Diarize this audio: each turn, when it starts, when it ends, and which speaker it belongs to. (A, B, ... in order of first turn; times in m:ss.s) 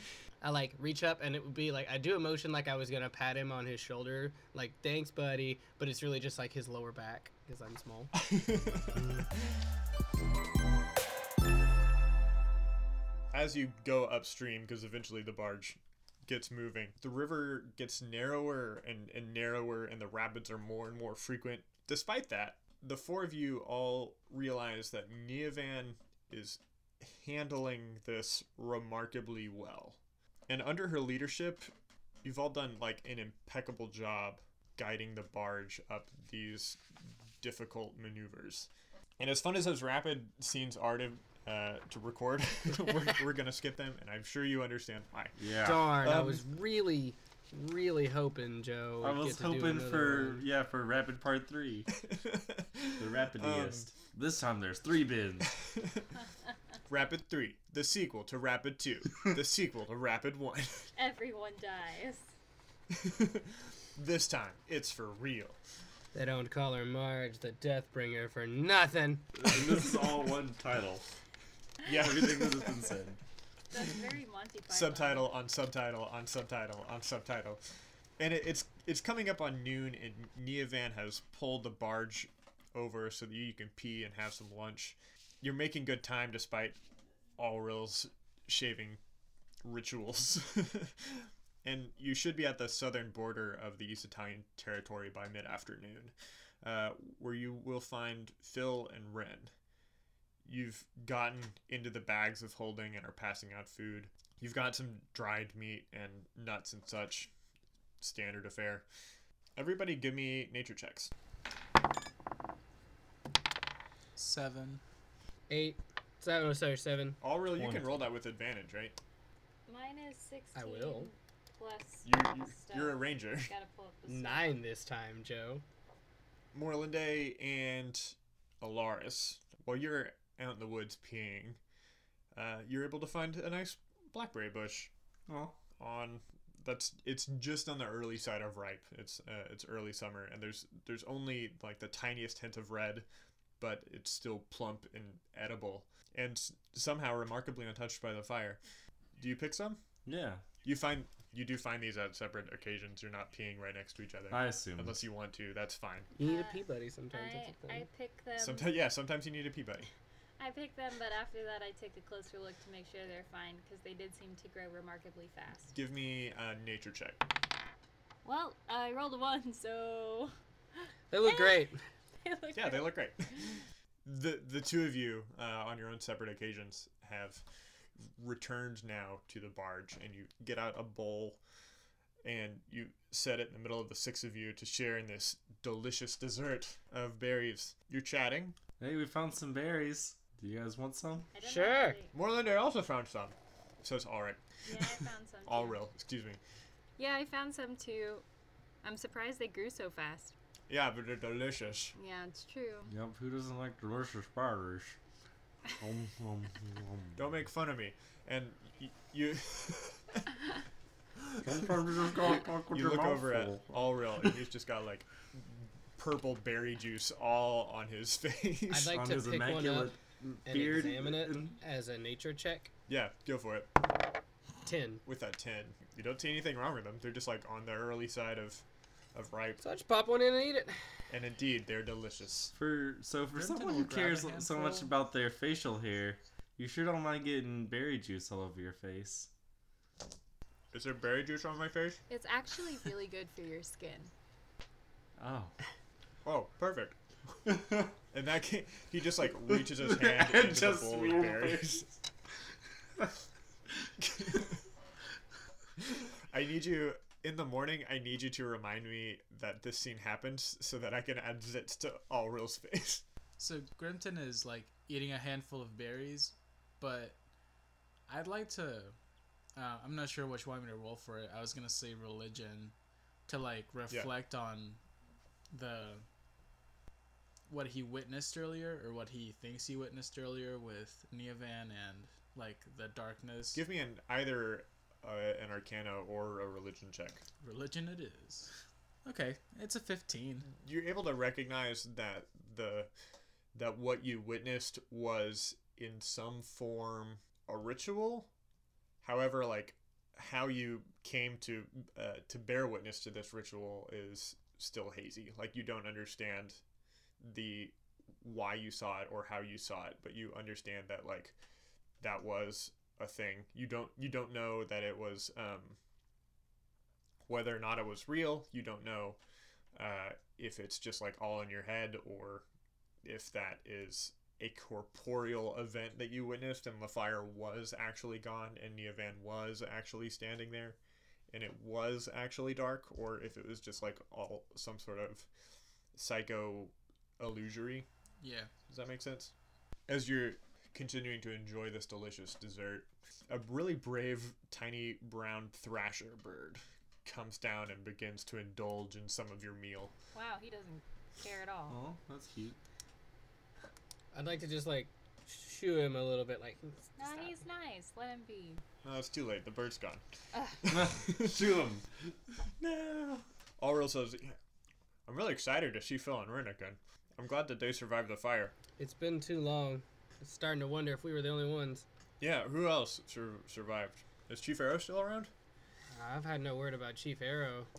0:00.4-0:08.1 A
0:08.2-0:09.2 B
0:13.3-0:31.7 B
0:32.2-0:46.4 B
0:45.4-0:45.9 C
0:45.6-0:50.4 A
0:49.0-0:51.9 C
0:52.0-0:53.9 B
0:53.0-0:55.5 C
0:55.6-0:56.1 B
0:56.9-1:00.9 B
1:01.0-1:02.3 D
1:02.9-1:05.6 B
1:06.1-1:09.3 A
1:09.4-1:11.1 C
1:11.8-1:12.9 B
1:11.9-1:13.2 C
1:13.7-1:15.4 D
1:14.7-1:17.6 B
1:18.2-1:26.8 B
1:27.4-1:29.0 B
1:29.6-1:39.5 B
1:40.4-1:47.3 B
1:48.0-1:48.9 B
1:49.6-1:51.1 B
1:54.2-1:54.8 E
1:55.5-1:57.2 A
1:57.2-1:59.0 B
1:57.6-1:58.1 C
1:59.7-2:04.6 D
2:00.6-2:01.1 A
2:02.0-2:03.5 B
2:04.1-2:05.6 A
2:06.5-2:11.6 B
2:12.3-2:14.9 B
2:15.3-2:15.6 C
2:15.8-2:23.1 B
2:23.6-2:28.6 B
2:29.2-2:29.8 B
2:30.0-2:30.4 C
2:30.6-2:36.1 B
2:34.3-2:35.0 C
2:36.2-2:37.9 A
2:36.2-2:38.7 D
2:38.4-2:39.9 B
2:40.4-2:45.7 D
2:45.7-2:47.2 B
2:48.2-2:50.4 D
2:51.1-2:51.8 A
2:51.2-2:51.6 D
2:52.2-2:53.0 D
2:52.5-2:57.4 B
2:58.1-3:01.4 B
3:02.2-3:08.6 B
3:08.8-3:11.3 C
3:11.3-3:12.1 D
3:11.4-3:12.0 A
3:12.1-3:14.4 B
3:14.7-3:15.8 D
3:15.5-3:16.4 B
3:17.0-3:18.2 D
3:18.8-3:20.3 D
3:20.7-3:22.0 B
3:22.0-3:22.9 D
3:22.9-3:25.0 C
3:25.8-3:27.3 C
3:27.2-3:30.3 B
3:31.4-3:34.3 C
3:32.2-3:39.0 B
3:38.7-3:42.7 A
3:38.9-3:41.6 C
3:42.9-3:43.7 B
3:44.6-3:45.0 A
3:45.0-3:49.6 B
3:49.6-3:50.8 A
3:51.1-3:52.5 B
3:52.5-3:59.3 C
3:53.3-3:54.9 E
4:00.7-4:02.0 B
4:02.1-4:04.1 D
4:05.2-4:05.6 C
4:06.2-4:07.0 B
4:07.5-4:07.9 C
4:08.1-4:11.8 B
4:09.4-4:11.9 C
4:14.0-4:14.5 B
4:15.8-4:23.0 B
4:23.4-4:27.2 E
4:28.1-4:29.0 E
4:29.6-4:32.7 E
4:33.3-4:34.8 E
4:33.9-4:34.1 B
4:35.5-4:36.0 E
4:37.5-4:43.6 E
4:43.5-4:47.2 B
4:47.4-4:48.5 E
4:49.0-4:50.5 E
4:50.5-4:52.9 B
4:53.5-4:58.3 B
4:59.0-5:06.6 B
5:07.2-5:11.4 B
5:12.0-5:15.8 B
5:17.2-5:19.2 B
5:19.8-5:22.4 B
5:23.0-5:30.8 B
5:31.3-5:35.3 B
5:36.0-5:37.9 B
5:38.2-5:38.5 E
5:38.7-5:39.3 B
5:39.9-5:49.9 B
5:50.1-5:51.8 D
5:51.7-5:52.6 C
5:54.1-5:57.3 A
5:57.0-5:58.6 D
5:58.8-6:00.0 B
6:00.3-6:00.6 D
6:00.6-6:01.4 B
6:00.7-6:01.9 C
6:02.6-6:03.2 C
6:03.6-6:04.4 B
6:05.1-6:08.5 B
6:08.8-6:11.9 A
6:12.2-6:15.3 B
6:15.9-6:17.7 A